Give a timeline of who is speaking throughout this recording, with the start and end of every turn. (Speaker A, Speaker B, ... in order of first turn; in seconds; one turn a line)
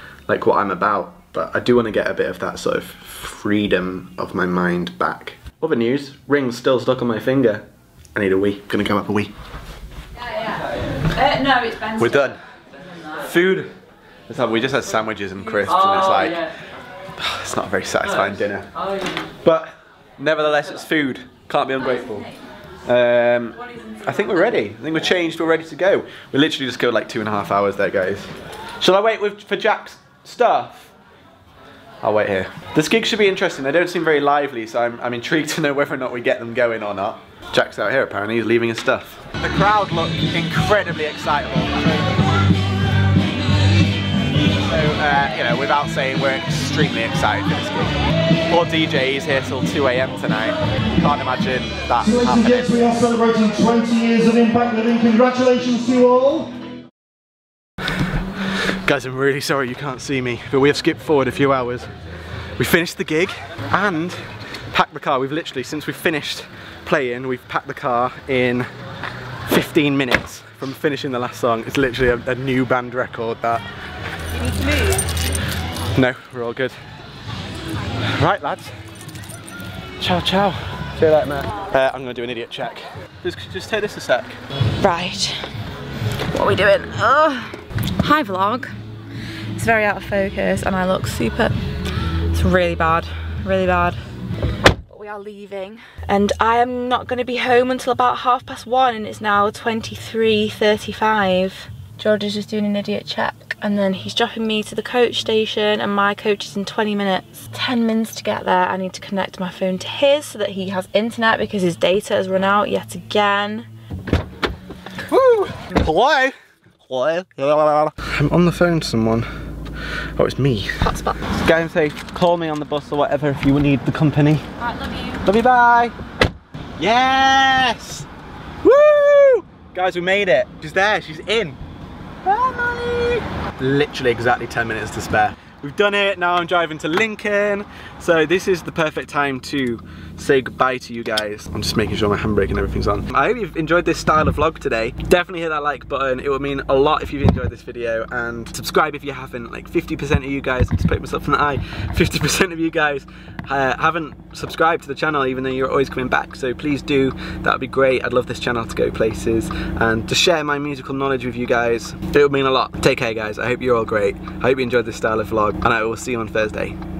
Speaker A: 0.3-7.6
Speaker A: 8.1-9.3
Speaker B: 11.1-12.3
Speaker A: 11.9-12.4
Speaker A: 13.1-13.7
Speaker A: 14.3-16.5
Speaker A: 17.2-18.7
Speaker A: 19.4-22.3
Speaker A: 22.8-30.9
Speaker A: 32.0-42.2
Speaker A: 44.5-48.0
Speaker A: 48.5-53.5
Speaker C: 53.6-56.5
Speaker A: 58.8-61.9
Speaker A: 62.6-68.7
Speaker A: 69.5-73.6
Speaker B: 74.5-75.0
Speaker A: 75.9-76.7
Speaker A: 78.1-78.7
Speaker A: 80.0-84.4
Speaker B: 84.8-85.5
Speaker B: 86.3-88.7
Speaker B: 89.5-91.6
Speaker B: 92.3-94.0
Speaker B: 94.9-113.7
Speaker A: 115.1-116.3
Speaker A: 116.8-119.3
Speaker A: 120.2-120.8
Speaker B: 120.8-121.2
Speaker A: 121.3-124.4
Speaker B: 124.7-125.2
Speaker A: 125.2-125.9
Speaker A: 126.8-128.1
Speaker A: 128.6-131.6
Speaker A: 132.2-166.8